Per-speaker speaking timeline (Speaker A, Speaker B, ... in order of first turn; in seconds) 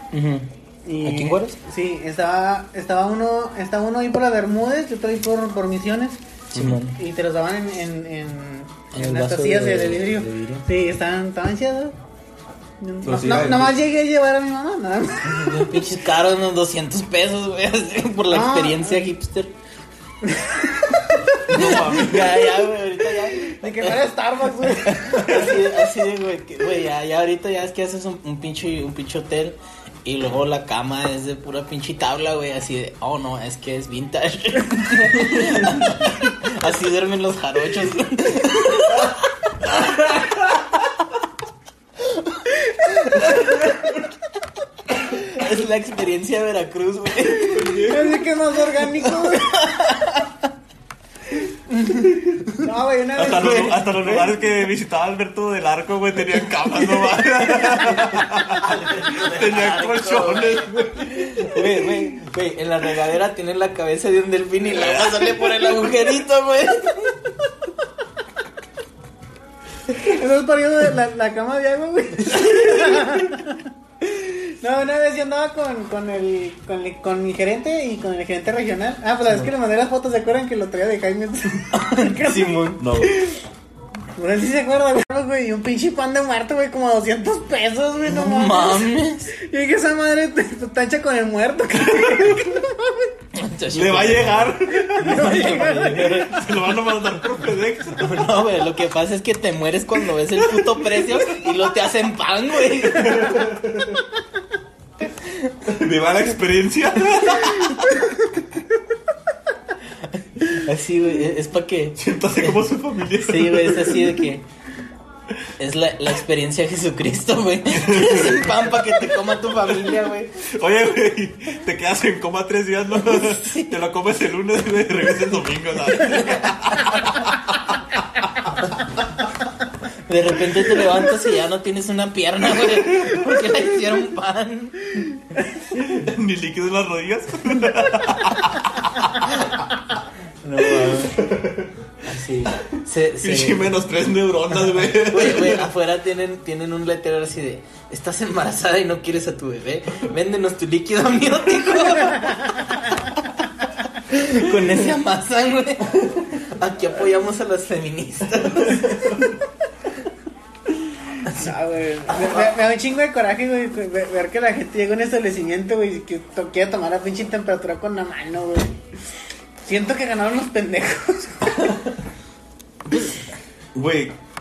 Speaker A: 0.1-0.5, 1.0-1.6, 6.5-7.0, 8.9-10.7, 15.2-19.5, 21.5-40.5, 42.1-43.6, 44.9-47.8, 49.0-50.4, 51.7-52.7, 53.4-54.3, 56.7-67.3, 72.4-72.8, 81.7-82.9, 88.1-89.3, 93.3-96.5, 97.9-103.6, 105.0-105.5, 110.1-112.6, 113.2-114.5, 115.6-120.3, 123.0-123.8, 126.0-126.9, 130.1-135.1, 140.4-141.2, 142.0-143.7, 144.5-159.1, 161.2-161.5, 162.1-162.5
Speaker B: 0.8-6.2, 7.0-11.9, 12.8-15.9, 18.3-19.1, 20.2-22.5, 23.4-25.7, 42.7-43.7, 47.3-49.9, 52.6-53.9, 69.9-83.4, 84.2-93.1, 94.7-96.5, 161.3-168.7, 169.6-171.8
Speaker C: 13.0-13.8, 21.5-22.4, 47.3-48.3, 53.1-61.9, 64.7-65.3, 82.8-83.2, 93.7-95.3, 96.2-98.5, 100.3-101.6, 102.7-104.0, 105.6-108.1, 112.0-114.3, 117.7-128.0, 132.8-133.2, 135.7-139.0, 140.6-141.7, 143.2-145.7, 158.5-159.3, 173.7-174.2